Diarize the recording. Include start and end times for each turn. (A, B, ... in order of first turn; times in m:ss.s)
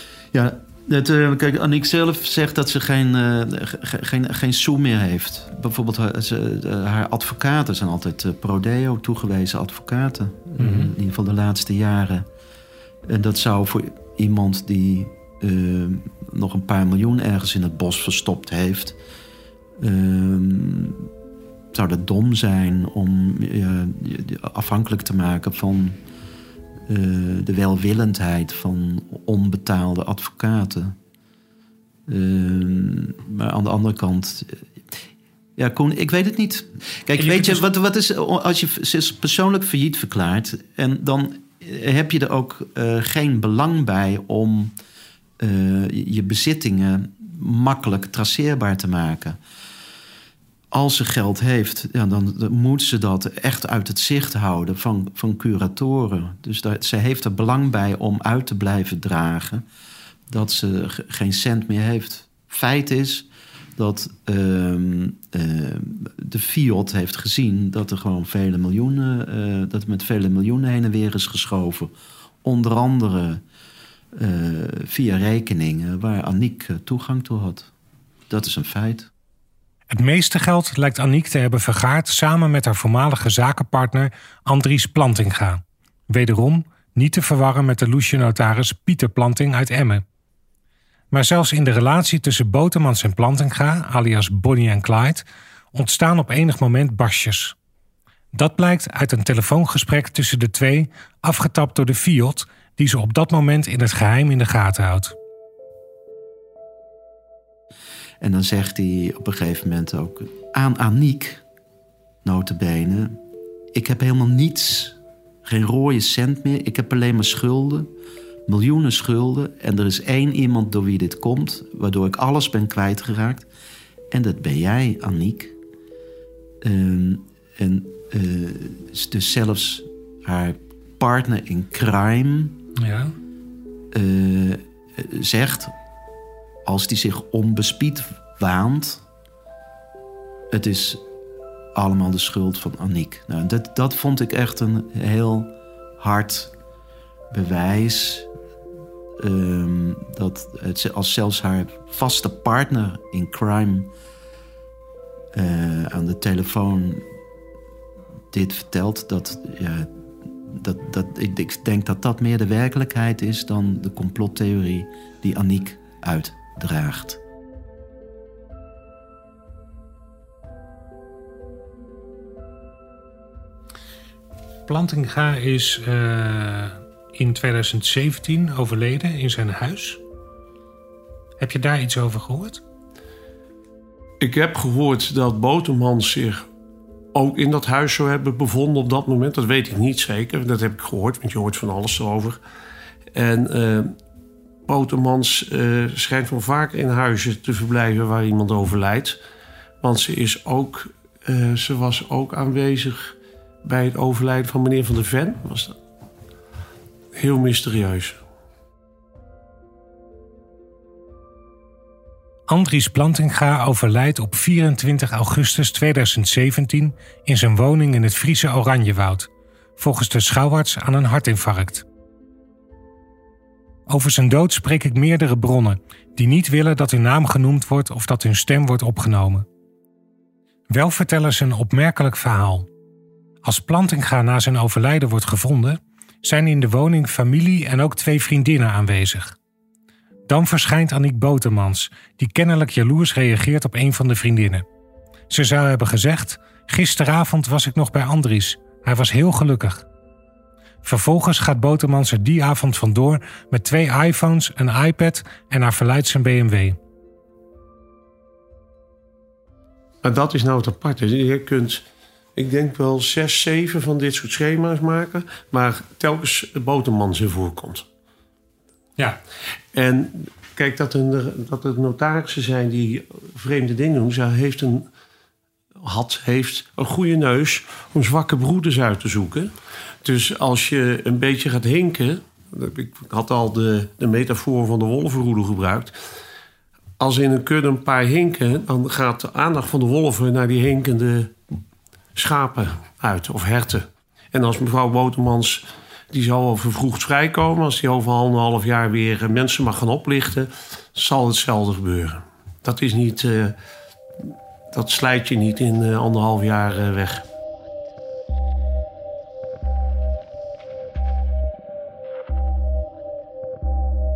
0:00.3-0:12.2 A
0:10.6-0:10.9 B
0:13.0-0:19.0 A
0:19.8-0:21.1 A
0:21.7-0:26.0 A
0:26.9-0:30.9 A
0:32.1-0:34.6 A
0:35.6-0:44.7 A
0:37.2-0:37.7 B
0:45.4-0:49.4 A
0:50.7-0:59.6 A
1:00.3-1:11.9 A
1:12.4-1:13.4 A
1:14.1-1:17.7 A
1:18.3-1:19.1 A
1:19.9-1:30.0 B
1:31.1-1:37.6 B
1:38.3-1:45.1 B
1:48.2-1:51.4 A
1:52.2-1:53.2 A
1:53.7-1:57.9 A
1:58.5-2:03.5 A
2:04.1-2:05.6 A
2:06.6-2:12.6 A
2:12.8-2:13.1 B
2:13.9-2:15.7 A
2:16.6-2:19.0 A
2:20.5-2:21.0 A
2:21.7-2:26.5 A
2:27.3-2:28.3 A
2:29.2-2:33.9 A
2:35.3-2:37.0 A
2:38.3-2:39.9 A
2:40.5-2:47.2 A
2:54.7-3:00.0 B
3:01.4-3:02.6 B
3:04.2-3:06.4 C
3:07.1-3:12.4 C
3:13.1-3:13.9 C
3:14.7-3:19.2 C
3:19.8-3:25.8 C
3:27.1-3:28.2 C
3:32.5-3:41.8 B
3:43.9-3:49.4 B
3:50.7-3:52.7 B
3:53.4-3:59.3 B
4:00.3-4:04.6 B
4:05.3-4:09.8 B
4:10.8-4:16.8 B
4:20.0-4:21.8 C
4:22.4-4:27.8 C
4:29.7-4:34.9 C
4:35.8-4:39.5 C
4:40.0-4:45.9 C
4:47.0-4:51.3 C
4:52.2-5:03.6 C
5:04.7-5:07.2 C